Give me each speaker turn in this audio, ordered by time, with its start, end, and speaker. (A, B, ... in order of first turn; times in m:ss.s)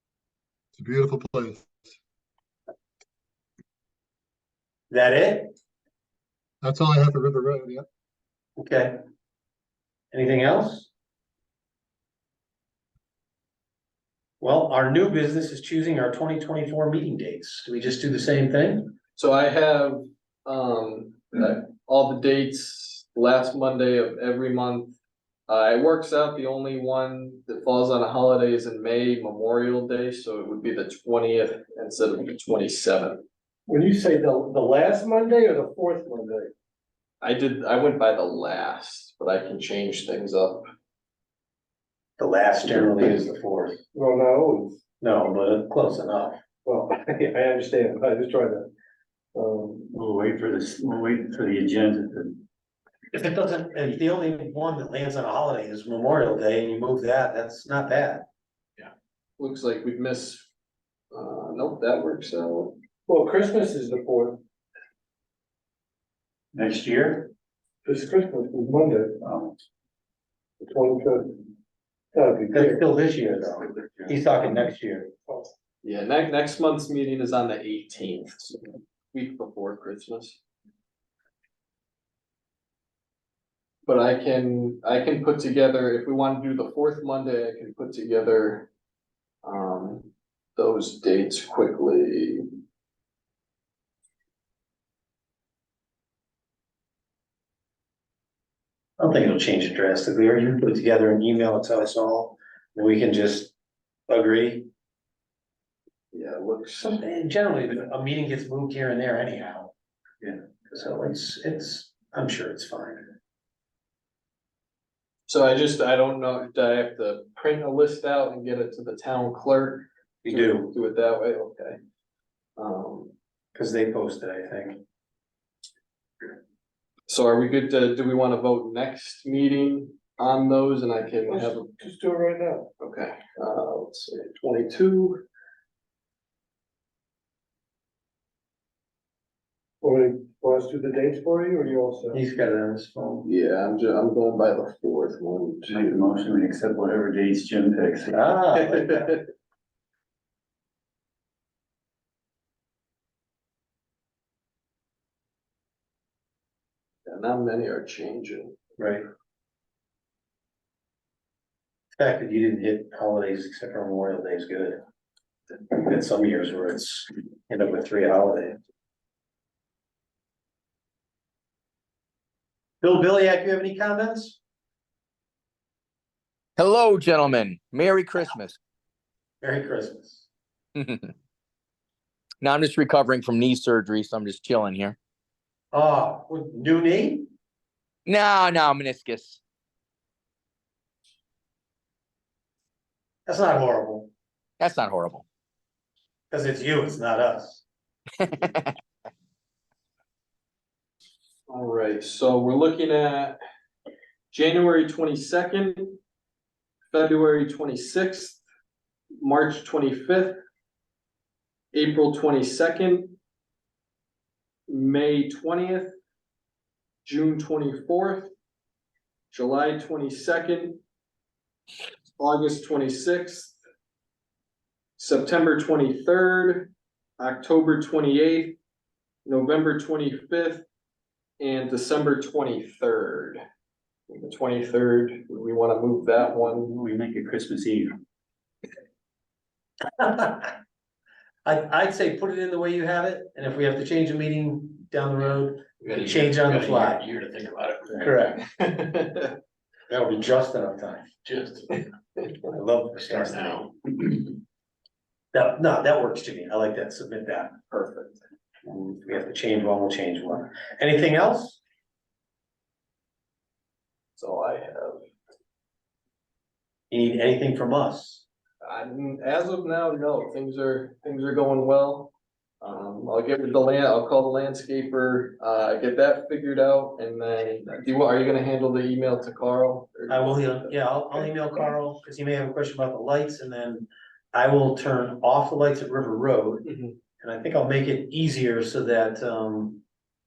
0:00.8-0:01.7 A
0:04.9-0:05.5 B
0:06.6-0:07.8 A
0:08.6-0:09.0 B
0:10.1-0:10.9 B
0:14.4-0:19.0 B
0:19.2-0:25.0 C
0:25.5-0:33.2 C
0:33.7-0:36.5 D
0:37.2-0:40.6 C
0:42.2-0:43.8 B
0:43.9-0:44.8 D
0:45.0-0:46.4 B
0:46.6-0:48.7 D
0:49.3-0:49.9 D
0:49.9-0:52.4 E
0:53.1-0:58.2 B
0:58.8-1:00.5 C
1:01.1-1:02.8 C
1:03.1-1:04.4 D
1:06.5-1:07.3 E
1:07.8-1:09.2 D
1:09.2-1:09.5 E
1:10.6-1:11.4 D
1:12.1-1:12.8 D
1:12.5-1:15.4 B
1:15.8-1:18.6 C
1:19.1-1:20.4 C
1:23.8-1:28.7 C
1:29.4-1:32.4 C
1:39.0-1:43.5 B
1:44.1-1:44.7 B
1:46.1-1:47.0 C
1:46.8-1:53.1 B
1:55.3-2:01.8 C
2:00.2-2:00.7 B
2:02.6-2:03.1 C
2:03.6-2:04.8 B
2:07.1-2:11.7 C
2:11.3-2:12.7 D
2:12.8-2:15.2 C
2:19.8-2:22.2 D
2:22.1-2:23.3 B
2:23.2-2:25.8 C
2:25.7-2:28.3 E
2:28.1-2:29.1 B
2:28.6-2:29.2 C
2:37.1-2:38.6 C
2:38.8-2:39.0 B
2:42.0-2:44.8 B
2:45.7-2:48.6 B
2:52.8-2:54.4 B
2:56.6-2:58.6 F
2:59.4-3:00.3 B
3:00.8-3:01.1 F
3:02.4-3:05.0 F
3:05.7-3:07.3 B
3:08.1-3:09.4 F
3:13.3-3:14.1 B
3:14.6-3:15.2 F
3:16.3-3:17.6 B
3:18.3-3:18.7 F
3:21.5-3:23.4 C
3:24.3-3:26.0 C
3:26.9-3:28.4 C
3:29.2-3:30.4 C
3:31.7-3:33.2 C
3:34.7-3:35.9 C
3:37.0-3:38.3 C
3:39.3-3:40.8 C
3:42.2-3:43.6 C
3:45.0-3:48.6 C
3:49.3-3:50.6 C
3:51.4-3:53.4 C
3:54.1-3:56.7 C
3:56.4-3:58.0 E
4:00.0-4:00.5 B
4:01.4-4:07.0 B
4:05.8-4:09.4 C
4:08.0-4:08.4 B
4:09.9-4:11.1 B
4:11.2-4:11.8 C
4:12.5-4:13.7 B
4:13.1-4:13.7 C
4:15.3-4:17.6 B
4:17.7-4:18.2 C
4:18.7-4:21.6 B
4:24.2-4:25.0 C
4:26.9-4:28.2 B
4:28.6-4:41.3 C
4:40.1-4:46.7 B
4:46.6-4:47.0 C
4:47.2-4:49.8 B